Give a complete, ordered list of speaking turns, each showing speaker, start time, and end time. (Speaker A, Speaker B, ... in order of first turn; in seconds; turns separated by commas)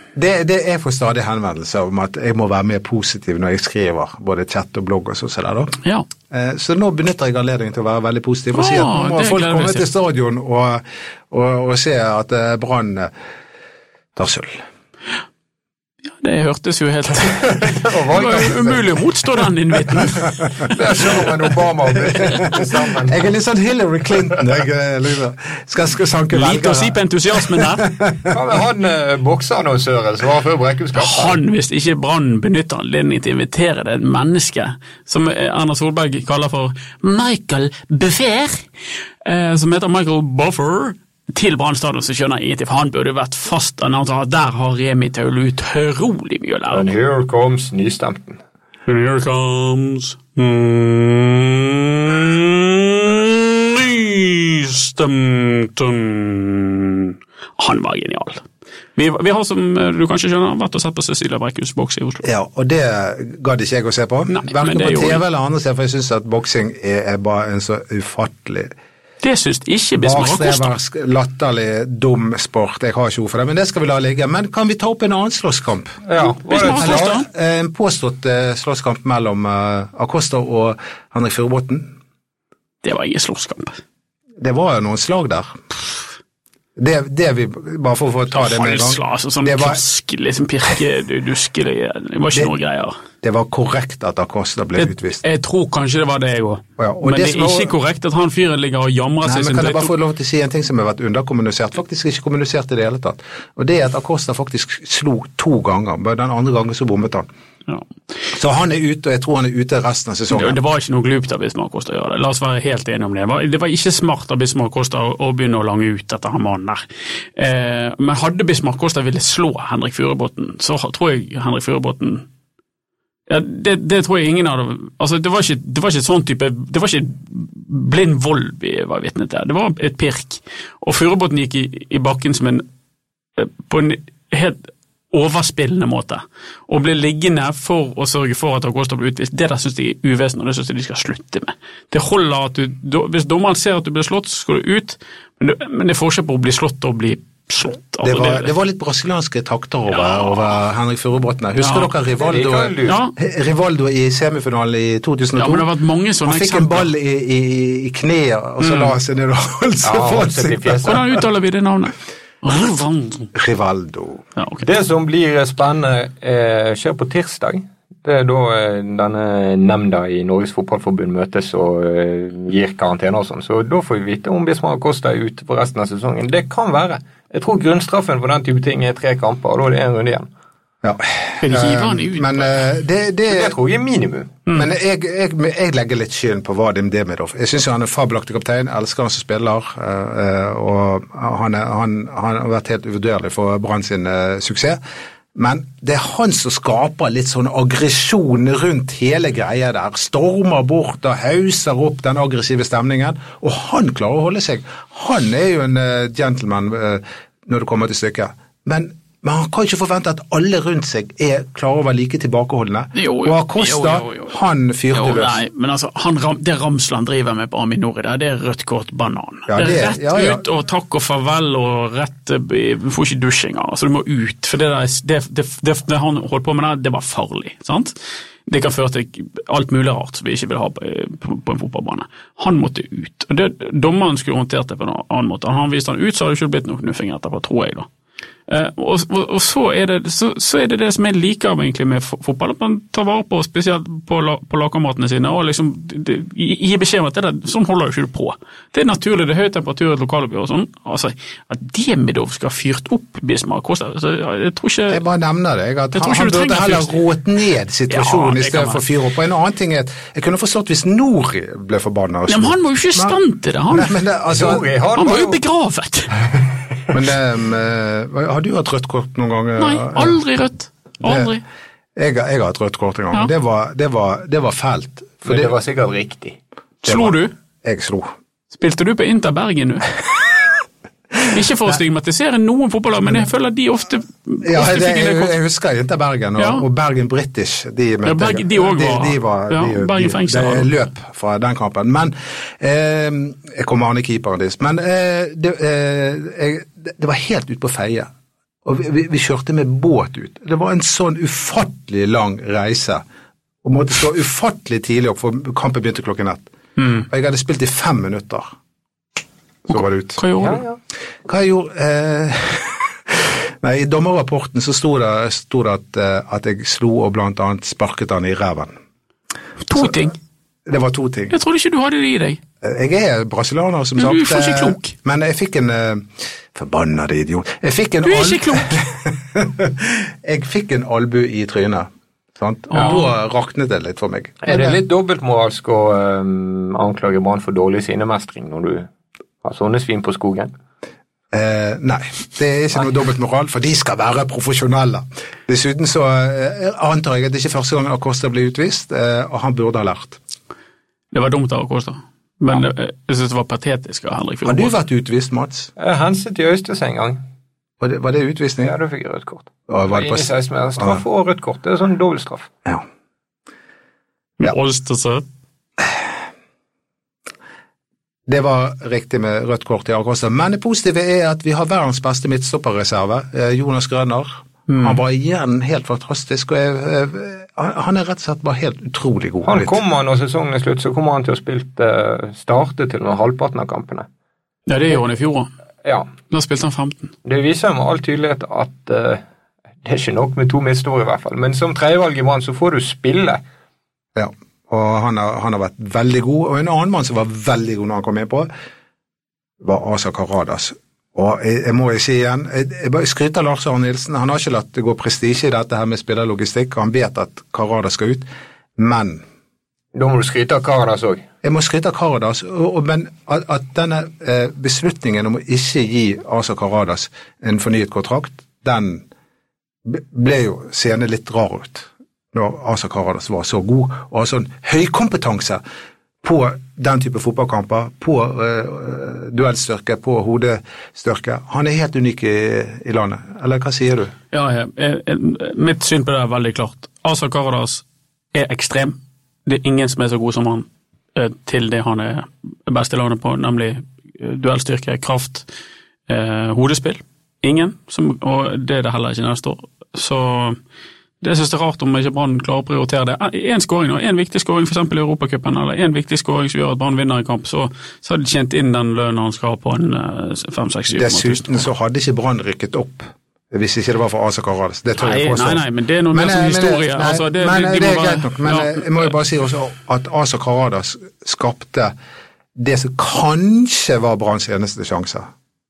Speaker A: 0.1-5.8, Speaker A: 6.3-13.1, Speaker B: 8.5-9.8, Speaker A: 14.2-14.6, Speaker B: 16.2-17.5, Speaker C: 17.2-18.9, Speaker B: 18.1-20.8, Speaker C: 20.6-23.2, Speaker A: 22.3-28.3, Speaker B: 26.3-27.9, Speaker C: 28.3-31.4, Speaker B: 30.9-38.6, Speaker B: 39.2-46.9, Speaker C: 46.7-48.4, Speaker B: 48.9-58.4, Speaker B: 59.0-62.3, Speaker A: 62.2-68.7, Speaker B: 64.3-65.2, Speaker B: 69.2-70.7, Speaker A: 70.0-76.0, Speaker C: 76.0-77.2, Speaker B: 76.2-77.2, Speaker A: 76.6-81.9, Speaker B: 82.8-83.8, Speaker A: 84.4-85.6, Speaker A: 86.8-89.8, Speaker B: 88.3-93.0, Speaker A: 93.2-95.2, Speaker B: 94.8-99.9, Speaker A: 96.8-97.7, Speaker A: 99.2-107.3, Speaker A: 108.3-110.6, Speaker B: 110.3-122.2, Speaker B: 123.3-132.6, Speaker B: 133.4-148.5, Speaker A: 148.0-155.7, Speaker B: 149.9-150.5, Speaker B: 151.6-151.9, Speaker C: 152.2-153.0, Speaker B: 152.9-153.1, Speaker B: 155.4-156.9, Speaker A: 156.2-161.0, Speaker B: 158.6-158.9, Speaker C: 159.8-161.0, Speaker B: 160.8-163.3, Speaker A: 163.3-164.2, Speaker B: 164.4-164.7, Speaker C: 164.6-180.3, Speaker A: 180.8-183.5, Speaker B: 181.4-182.6, Speaker C: 183.3-184.4, Speaker A: 184.5-194.8, Speaker A: 195.3-215.4, Speaker B: 212.9-214.3, Speaker B: 214.9-227.9, Speaker A: 219.5-220.4, Speaker B: 228.5-237.9, Speaker B: 238.5-255.0, Speaker A: 254.9-264.6, Speaker B: 255.9-257.0, Speaker B: 257.9-258.8, Speaker B: 262.3-263.9, Speaker C: 264.3-265.4, Speaker B: 264.9-266.1, Speaker A: 266.9-270.2, Speaker B: 269.6-271.4, Speaker A: 271.0-271.3, Speaker A: 271.9-275.5, Speaker C: 275.2-276.4, Speaker B: 276.8-277.3, Speaker A: 276.9-278.1, Speaker B: 278.5-279.9, Speaker B: 281.3-285.3, Speaker A: 284.4-298.1, Speaker B: 286.4-286.6, Speaker B: 288.0-290.7, Speaker A: 298.6-303.0, Speaker A: 303.6-306.5, Speaker B: 306.8-307.1, Speaker A: 307.0-308.5, Speaker A: 309.7-310.2, Speaker B: 310.2-310.6, Speaker C: 310.4-310.8, Speaker A: 311.2-318.7, Speaker B: 319.6-320.1, Speaker A: 320.6-321.4, Speaker B: 321.3-322.4, Speaker A: 322.6-334.8, Speaker B: 324.0-324.9, Speaker B: 328.0-328.8, Speaker B: 332.7-333.1, Speaker C: 334.4-338.9, Speaker C: 339.4-340.5, Speaker A: 341.3-350.2, Speaker B: 351.1-354.7, Speaker A: 354.4-355.7, Speaker C: 355.8-357.2, Speaker A: 357.8-358.7, Speaker C: 358.6-362.5, Speaker A: 359.7-360.3, Speaker B: 364.4-365.2, Speaker A: 368.3-379.8, Speaker B: 374.7-375.0, Speaker C: 379.4-384.1, Speaker B: 384.7-385.5, Speaker B: 386.3-387.1, Speaker C: 387.2-389.2, Speaker C: 389.8-393.4, Speaker A: 394.1-398.5, Speaker A: 399.6-409.2, Speaker C: 409.9-411.2, Speaker A: 411.4-419.0, Speaker A: 419.9-425.6, Speaker A: 426.2-434.1, Speaker B: 434.3-445.5, Speaker B: 446.1-450.6, Speaker B: 451.2-461.7, Speaker A: 460.9-471.9, Speaker B: 465.0-469.1, Speaker A: 472.6-475.3